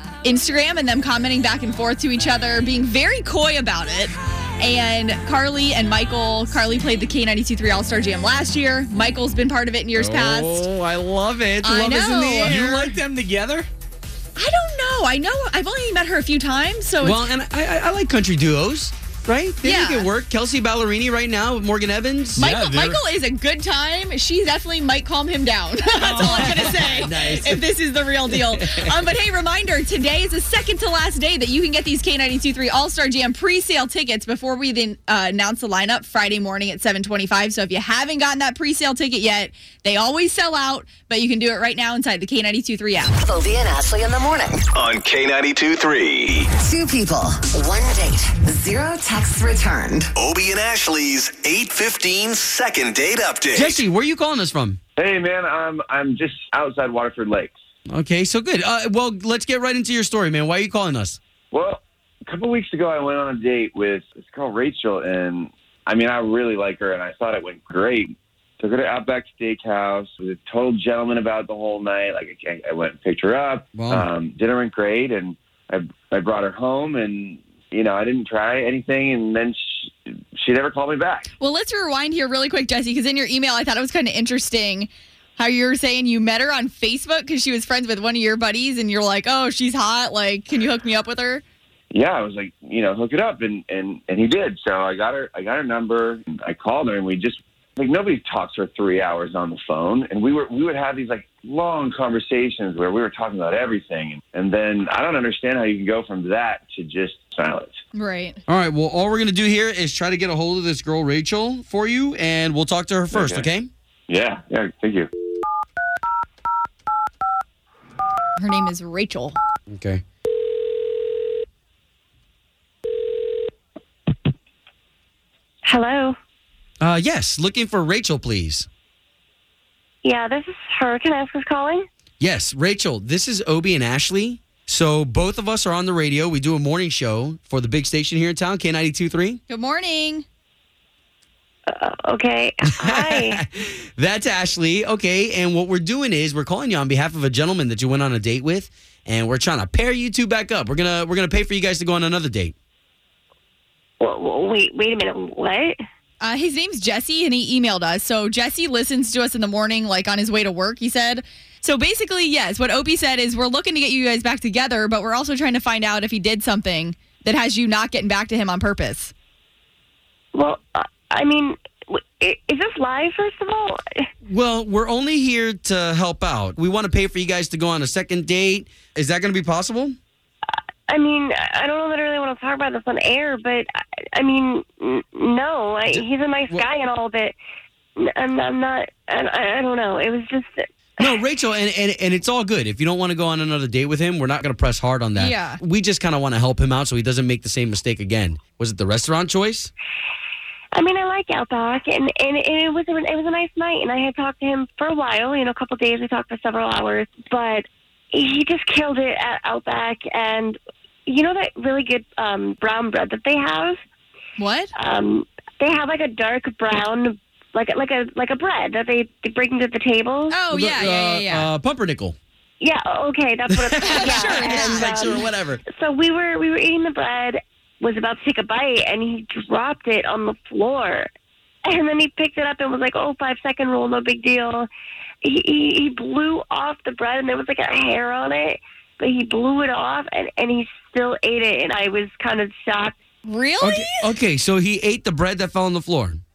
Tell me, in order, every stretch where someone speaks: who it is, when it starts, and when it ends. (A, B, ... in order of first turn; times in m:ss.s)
0:00.2-0:10.7 A
0:10.0-0:13.0 B
0:11.6-0:12.6 A
0:12.4-0:13.7 C
0:14.4-0:17.3 A
0:17.0-0:22.6 B
0:19.6-0:20.1 A
0:22.4-0:43.2 A
0:22.4-0:23.0 C
0:26.0-0:27.7 B
0:26.1-0:26.8 C
0:28.3-0:29.0 B
0:43.2-0:44.6 D
0:44.7-0:46.5 E
0:46.5-0:50.1 D
0:50.2-0:53.8 E
0:53.5-0:54.8 B
0:55.0-0:57.6 F
0:57.9-1:01.2 B
1:01.5-1:21.3 F
1:13.7-1:14.1 B
1:21.4-1:31.4 A
1:31.9-1:47.8 F
1:47.9-1:48.4 A
1:48.5-1:53.7 B
1:53.1-1:53.5 F
1:54.1-1:55.1 F
1:58.4-1:59.4 A
1:59.7-2:00.0 B
2:05.6-2:06.2 G
2:06.8-2:08.7 B
2:10.0-2:11.9 G
2:12.2-2:19.4 B
2:19.5-2:20.3 A
2:21.7-2:23.4 G
2:22.8-2:32.5 B
2:34.0-2:35.8 G
2:36.2-2:49.1 A
2:50.3-2:54.1 G
2:54.3-3:00.0 B
3:00.9-3:07.4 G
3:05.9-3:06.6 B
3:08.0-3:11.1 G
3:11.0-3:19.7 B
3:15.2-3:15.6 A
3:20.7-3:33.8 G
3:34.4-3:34.7 A
3:34.8-3:40.4 G
3:40.3-3:41.5 A
3:40.5-3:42.2 B
3:42.6-3:51.1 G
3:43.6-3:45.6 B
3:43.8-3:45.2 A
3:51.7-3:54.7 G
3:55.2-4:03.0 G
4:03.2-4:04.2 A
4:03.6-4:06.2 B